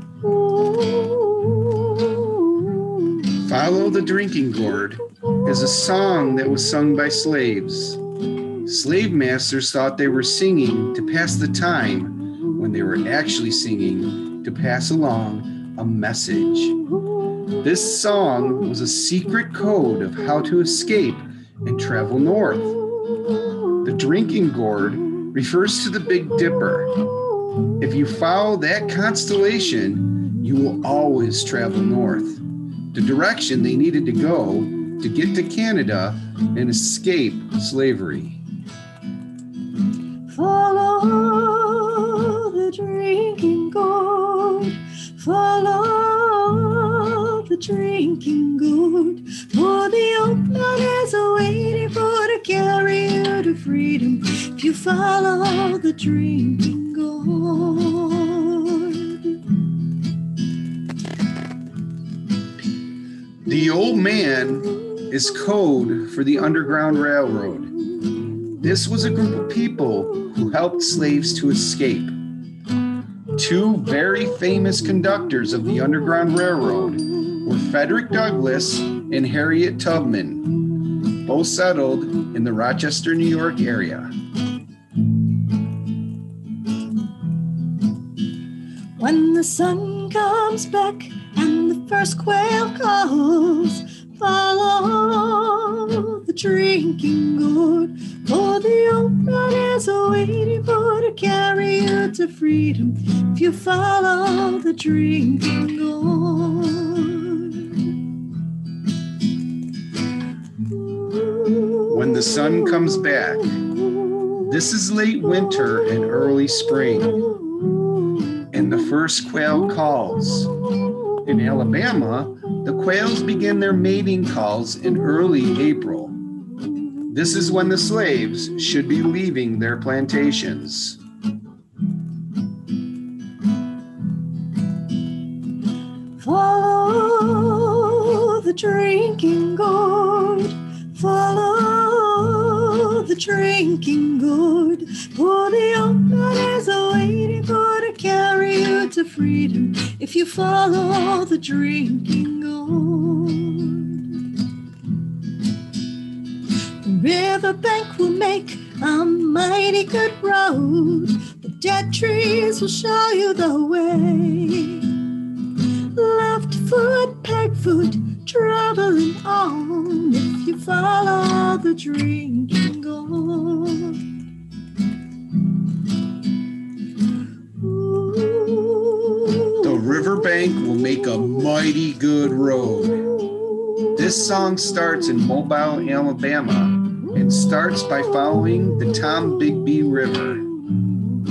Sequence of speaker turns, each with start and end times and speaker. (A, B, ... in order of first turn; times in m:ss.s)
0:00.2-0:02.7 A
0:03.3-0:08.1 B
0:08.6-0:16.8 B
0:17.6-0:22.8 B
0:23.8-0:27.1 B
0:27.8-0:38.4 B
0:40.3-0:59.4 A
1:03.4-1:07.7 B
1:08.6-1:12.2 B
1:13.3-1:24.1 B
1:29.0-1:47.9 A
1:51.9-1:57.4 B
1:58.5-2:06.2 B
2:07.1-2:11.0 B
2:16.2-2:34.2 A
2:36.8-2:45.1 A
2:45.8-2:54.2 A
2:57.8-2:59.5 A
2:59.6-3:03.2 B
3:03.9-3:10.5 B